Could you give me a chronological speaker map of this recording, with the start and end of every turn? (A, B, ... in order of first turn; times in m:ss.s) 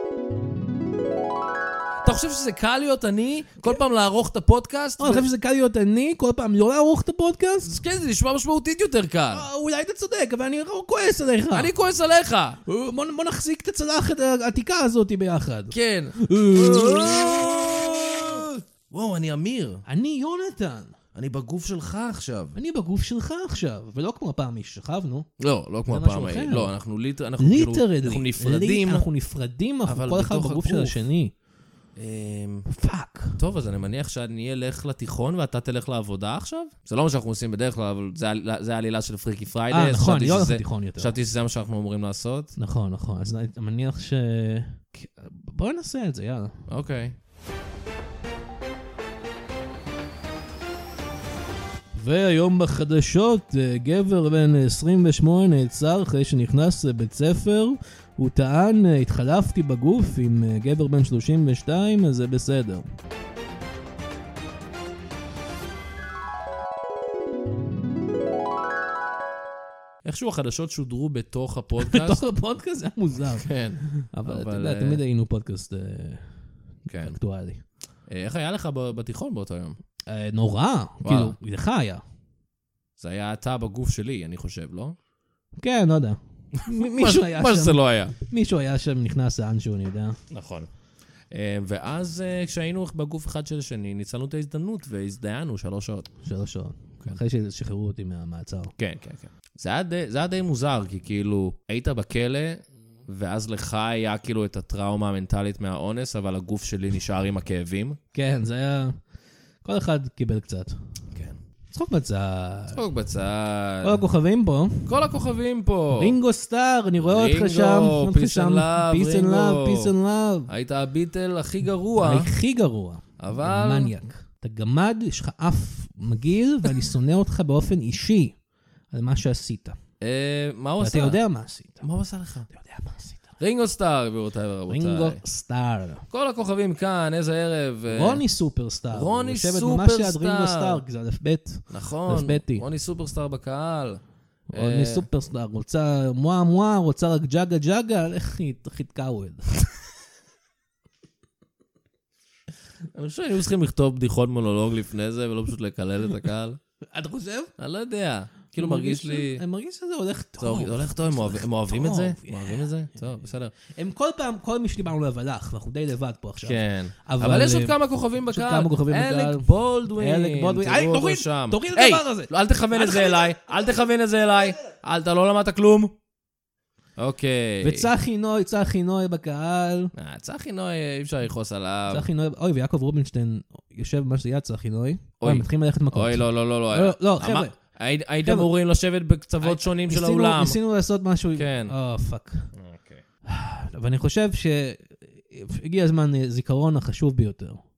0:02.0-0:05.3 A
0:05.0-0:07.8 B
0:07.6-0:09.5 A
0:09.3-0:11.7 B
0:11.5-0:12.6 A
0:12.7-0:18.3 B
0:15.7-0:19.8 A
0:19.9-0:21.0 B
0:21.2-0:22.6 A
0:22.6-0:25.3 B
0:25.4-0:29.1 A
0:25.9-0:26.7 B
0:27.4-0:31.3 B
0:29.9-0:31.0 A
0:32.0-0:32.7 A
0:32.7-0:33.4 B
0:33.4-0:42.5 A
0:39.7-0:41.2 B
0:42.6-0:46.6 B
0:46.7-0:47.2 A
0:52.0-1:02.9 B
1:10.0-1:12.3 A
1:11.8-1:16.3 B
1:13.3-1:15.0 A
1:16.9-1:17.2 A
1:16.9-1:17.6 B
1:18.1-1:19.8 A
1:20.1-1:22.0 B
1:21.0-1:21.4 A
1:23.0-1:25.0 A
1:25.6-1:30.2 B
1:26.5-1:28.1 A
1:30.3-1:30.7 A
1:31.3-1:36.1 A
1:36.2-1:38.7 B
1:38.8-1:48.0 A
1:48.1-1:49.0 B
1:49.6-1:50.8 B
1:51.1-1:51.4 A
1:51.7-1:52.8 B
1:52.7-1:54.0 A
1:53.8-1:55.0 B
1:54.9-1:56.2 A
1:56.0-2:00.5 B
1:57.0-1:59.9 A
2:00.5-2:02.3 A
2:02.0-2:08.4 B
2:03.2-2:03.9 A
2:08.9-2:09.8 B
2:10.0-2:11.2 A
2:10.8-2:11.9 B
2:11.8-2:12.5 A
2:12.5-2:13.3 B
2:13.4-2:15.2 A
2:14.7-2:16.0 B
2:16.1-2:18.2 A
2:17.9-2:22.7 B
2:18.9-2:20.8 A
2:21.7-2:24.0 A
2:24.5-2:29.5 B
2:24.5-2:25.1 A
2:32.9-2:36.6 A
2:36.9-2:37.5 B
2:37.6-2:39.4 A
2:38.6-2:43.0 B
2:40.4-2:43.5 A
2:43.7-2:53.4 B
2:46.4-2:55.9 A
2:57.0-2:57.9 A
2:57.6-2:59.9 B
3:00.0-3:02.1 A
3:01.9-3:07.6 B
3:05.2-3:10.6 A
3:08.2-3:08.5 B
3:09.4-3:12.5 B
3:11.4-3:11.8 A
3:12.5-3:13.0 A
3:13.3-3:17.6 B